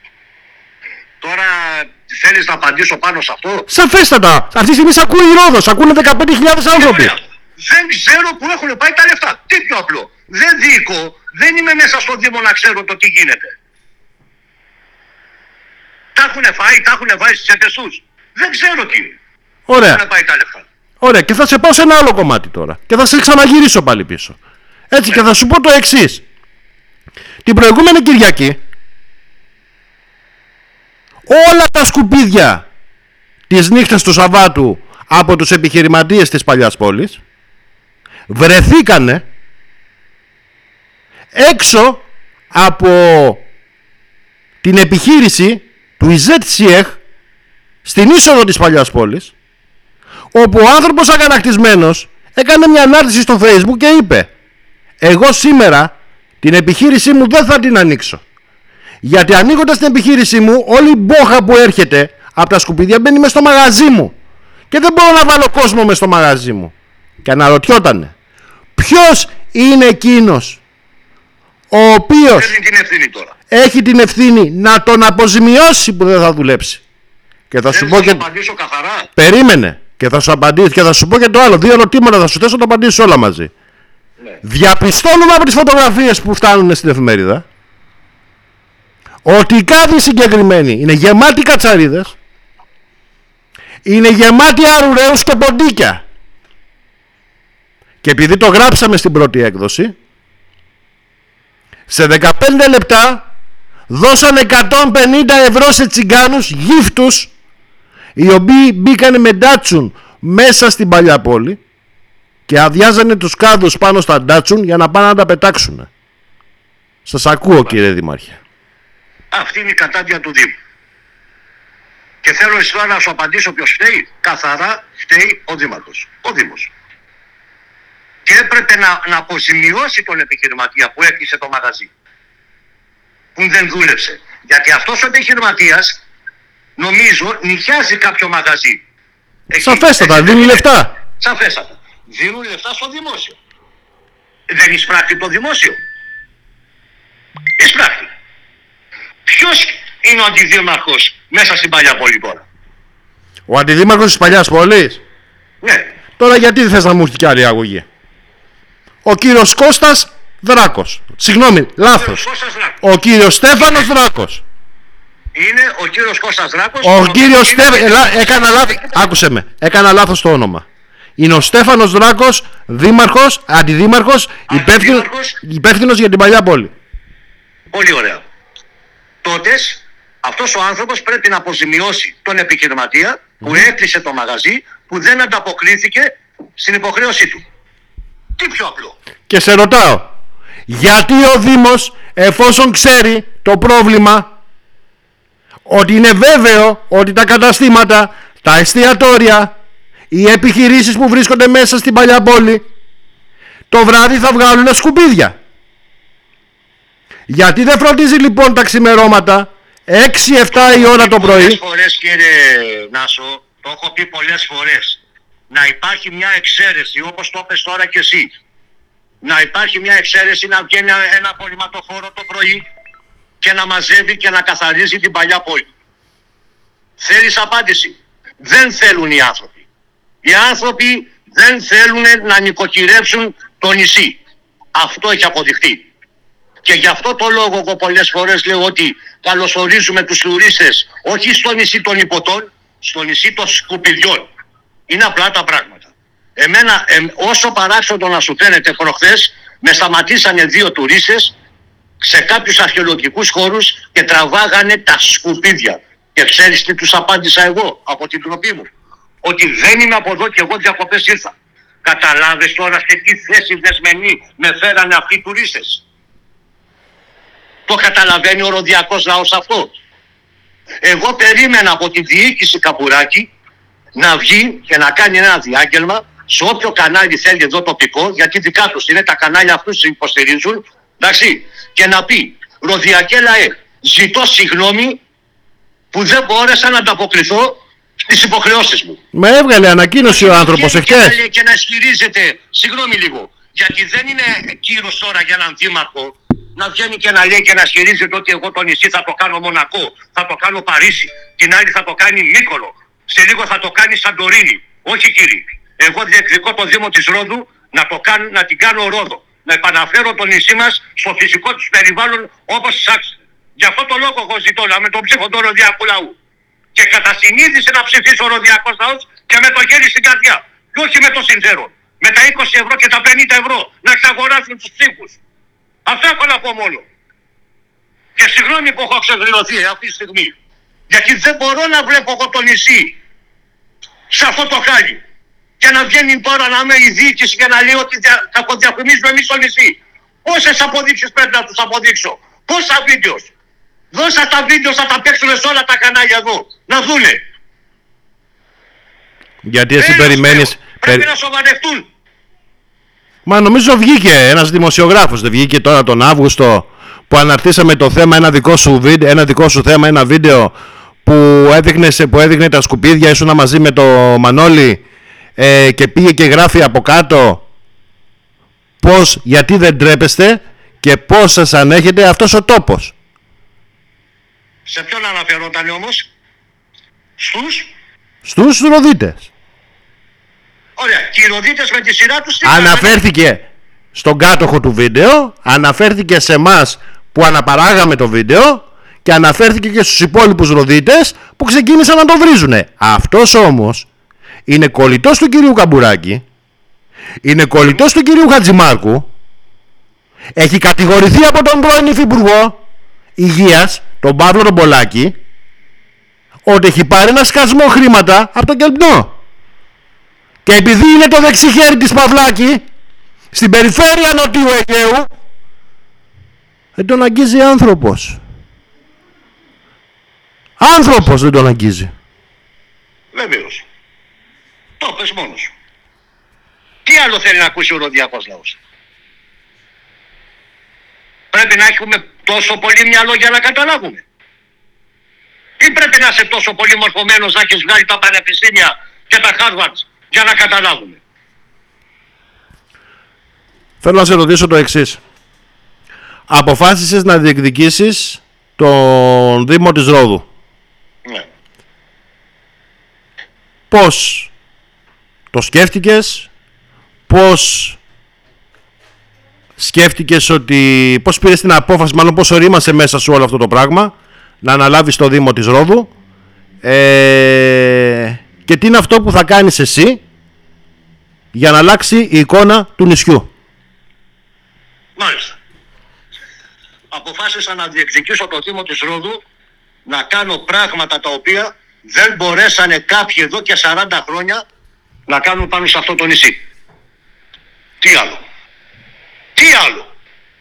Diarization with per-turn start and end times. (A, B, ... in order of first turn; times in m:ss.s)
0:01.2-0:03.7 A
0:03.7-0:07.2 B
0:06.7-0:13.6 A
0:16.2-0:19.2 A
0:19.7-0:20.0 B
0:19.8-0:20.7 A
0:21.0-0:24.4 B
0:24.9-0:26.2 B
0:27.4-0:28.6 B
0:31.3-0:32.6 B
0:33.5-0:37.2 B
0:38.3-0:39.2 B
0:41.3-0:43.4 B
0:44.6-0:47.0 B
0:47.8-0:49.3 B
0:50.3-0:54.3 B
0:55.0-0:58.2 B
0:59.0-1:04.1 B
1:04.7-1:06.7 B
1:07.2-1:08.1 B
1:08.8-1:10.6 B
1:11.7-1:12.5 B
1:12.3-1:13.3 A
1:13.5-1:16.8 B
1:17.5-1:18.2 B
1:17.7-1:19.1 A
1:19.2-1:23.5 B
1:24.4-1:27.4 B
1:29.2-1:32.2 B
1:33.8-1:36.0 B
1:38.0-1:40.0 B
1:41.9-1:43.2 B
1:43.9-1:47.3 B
1:48.2-1:51.6 B
1:52.5-1:55.9 B
1:57.1-1:58.4 B
1:59.3-2:00.6 A
2:02.2-2:06.7 A
2:08.3-2:11.9 A
2:13.4-2:16.0 A
2:16.8-2:18.8 A
2:19.5-2:20.7 A
2:19.6-2:20.9 B
2:21.2-2:23.4 A
2:24.5-2:25.8 A
2:27.6-2:28.1 A
2:29.3-2:32.4 A
2:33.5-2:35.0 B
2:35.6-2:35.9 A
2:36.2-2:37.9 B
2:39.0-2:42.2 B
2:41.9-2:42.8 A
2:42.8-2:44.4 B
2:45.4-2:48.9 A
2:46.8-2:50.7 B
2:51.2-2:56.7 B
2:54.5-2:55.4 A
2:57.7-2:58.2 A
2:59.2-3:07.4 A
3:08.4-3:09.0 A
3:09.3-3:10.1 B
3:10.7-3:14.3 B
3:15.7-3:19.5 B
3:20.1-3:22.6 B
3:23.7-3:25.4 B
3:27.3-3:31.6 B
3:30.5-3:35.0 A
3:35.5-3:38.3 A
3:39.2-3:42.6 A
3:43.4-3:45.7 A
3:47.0-3:49.6 A
3:50.2-3:54.2 A
3:54.8-3:55.9 A
3:56.6-4:04.3 A
4:04.9-4:11.3 A
4:12.0-4:18.7 A
4:19.2-4:21.3 A
4:21.8-4:25.8 A
4:27.7-4:29.7 A
4:30.8-4:33.3 A
4:34.0-4:45.0 A
4:45.9-4:49.0 A
4:49.1-4:51.2 B
4:50.1-5:16.2 A
5:16.8-5:25.2 A
5:25.9-5:26.8 A
5:28.2-5:30.3 A
5:30.9-5:33.0 A
5:34.1-5:35.0 A
5:35.6-5:43.3 A
5:43.9-5:47.2 A
5:49.4-5:51.1 B
5:49.8-5:51.9 A
5:53.3-6:04.8 B
6:05.4-6:07.4 B
6:08.8-6:12.9 B
6:14.7-6:16.1 A
6:17.2-6:17.7 A
6:18.2-6:19.3 B
6:20.8-6:23.0 A
6:22.4-6:33.9 B
6:34.5-6:36.2 B
6:37.2-6:39.1 B
6:40.4-6:42.6 B
6:43.2-6:45.2 B
6:46.5-6:49.2 B
6:50.4-6:52.6 B
6:53.3-6:55.1 B
6:56.8-6:58.2 B
7:00.6-7:01.9 B
7:03.1-7:03.6 A
7:04.8-7:05.5 A
7:06.9-7:08.6 A
7:11.3-7:14.0 A
7:15.6-7:21.0 A
7:23.8-7:25.0 B
7:26.3-7:30.3 B
7:33.7-7:34.3 B
7:35.3-7:36.3 B
7:37.1-7:37.8 B
7:39.6-7:45.9 B
7:46.6-7:50.0 B
7:51.3-7:53.3 B
7:55.0-7:55.4 A
7:56.9-7:59.2 A
7:59.9-8:04.4 A
8:05.1-8:06.4 A
8:07.8-8:08.2 A
8:09.4-8:09.9 A